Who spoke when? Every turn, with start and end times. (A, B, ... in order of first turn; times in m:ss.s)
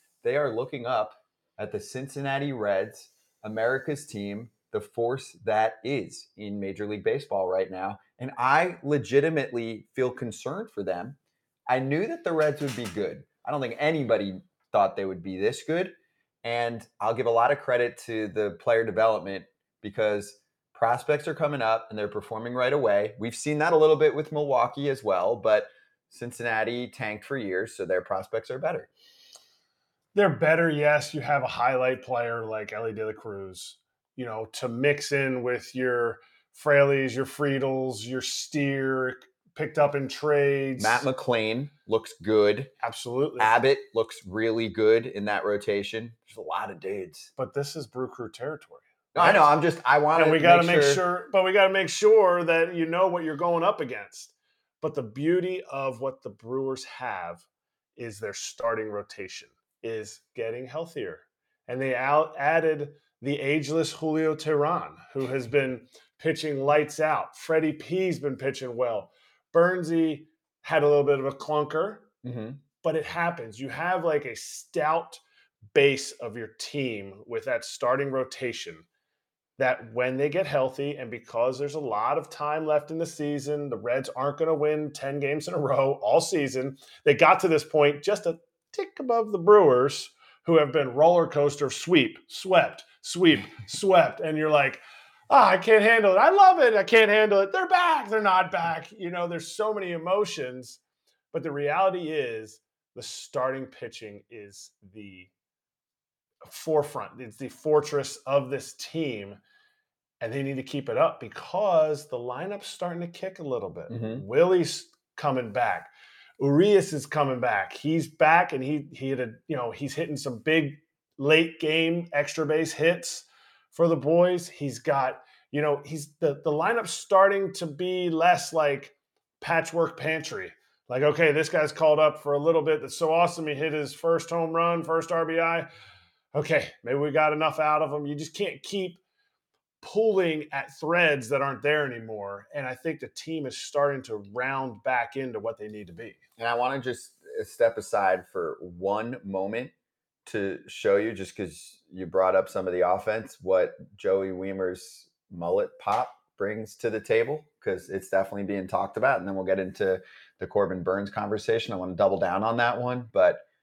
0:00.2-0:11.2 A
0:11.7-0:28.9 A
0:30.1-0:41.0 B
0:40.8-0:42.7 A
0:42.8-0:43.5 B
0:43.4-0:47.3 A
0:47.4-0:49.5 B
0:49.2-0:51.0 A
0:50.2-0:57.4 B
0:58.0-1:12.1 B
1:12.2-1:12.6 A
1:12.8-1:15.2 B
1:15.7-1:18.8 B
1:19.6-1:40.8 B
1:41.3-1:45.3 B
1:46.5-1:49.4 B
1:50.2-2:15.7 B
1:53.9-1:54.2 A
2:16.3-2:19.0 B
2:19.8-2:26.2 B
2:26.4-2:29.7 A
2:30.3-2:43.4 A